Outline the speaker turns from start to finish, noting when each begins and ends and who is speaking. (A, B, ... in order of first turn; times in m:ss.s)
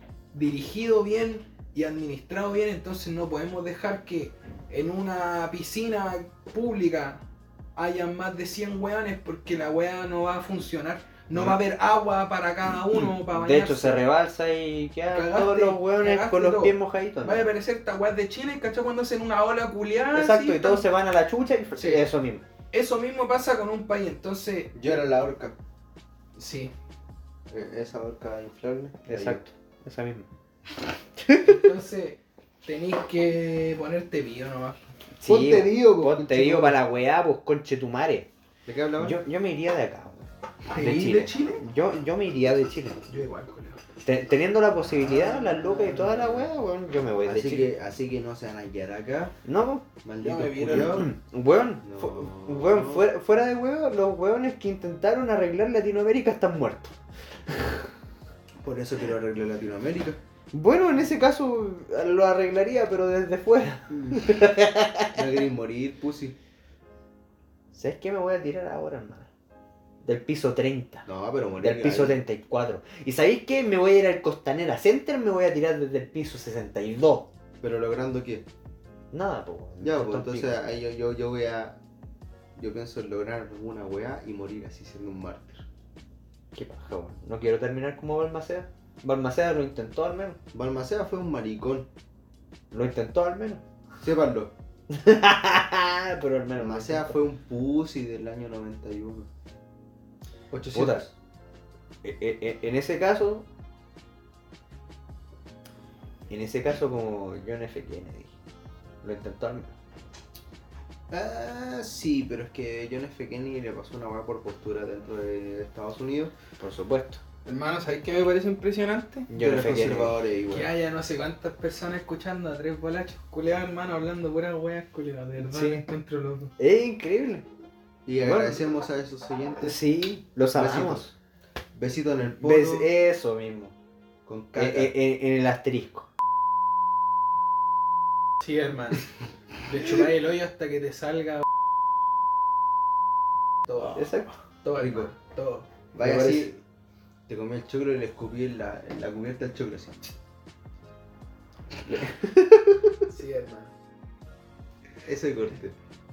0:00.3-0:07.2 A
0:07.8-0:14.1 A
0:13.3-0:17.5 B
0:15.1-0:20.9 A
0:20.1-0:22.5 B
0:21.8-0:22.1 A
0:22.7-0:24.8 A
0:24.8-0:25.6 C
0:26.4-0:26.7 A
0:27.5-0:29.4 C
0:29.1-0:30.3 B
0:31.2-0:31.7 B
0:31.4-0:34.9 A
0:35.2-0:38.3 B
0:35.3-0:36.8 C
0:38.7-0:39.2 C
0:39.0-0:43.0 B
0:40.7-0:41.6 A
0:43.1-0:43.8 A
0:44.0-0:47.7 B
0:45.8-0:46.2 C
0:47.2-0:49.4 C
0:49.4-0:49.9 B
0:50.0-0:51.1 C
0:50.2-0:51.1 A
0:50.7-0:56.9 B
0:51.8-0:53.1 C
0:58.6-1:00.2 C
1:00.5-1:05.1 B
1:03.9-1:04.2 C
1:05.1-1:06.4 C
1:07.7-1:09.3 B
1:10.0-1:11.1 B
1:11.1-1:12.2 C
1:11.6-1:17.3 B
1:17.6-1:18.4 C
1:19.1-1:20.6 B
1:19.8-1:21.8 C
1:22.6-1:25.6 C
1:26.5-1:30.4 B
1:30.5-1:31.9 C
1:32.7-1:33.6 B
1:34.0-1:34.5 C
1:34.9-1:37.2 B
1:36.6-1:39.3 C
1:40.5-1:41.1 C
1:40.7-1:41.1 B
1:42.0-1:43.5 B
1:46.3-1:48.3 B
1:49.0-1:49.7 B
1:51.1-1:56.3 C
1:56.6-1:57.2 B
1:57.4-1:59.3 A
1:59.3-2:00.2 B
1:59.4-2:00.7 C
2:00.5-2:06.5 A
2:05.4-2:05.9 B
2:06.6-2:07.5 B
2:08.1-2:09.8 C
2:08.2-2:08.6 B
2:09.6-2:11.1 B
2:10.5-2:11.1 C
2:11.7-2:12.9 C
2:12.4-2:13.7 B
2:14.3-2:14.9 C
2:14.6-2:16.1 B
2:18.4-2:19.1 A
2:19.6-2:21.5 A
2:23.7-2:24.1 A
2:23.9-2:24.4 B
2:24.6-2:25.7 A
2:24.8-2:25.1 C
2:25.9-2:26.6 C
2:26.0-2:26.5 B
2:27.3-2:30.1 C
2:31.9-2:32.9 B
2:33.1-2:33.7 A
2:35.0-2:35.8 C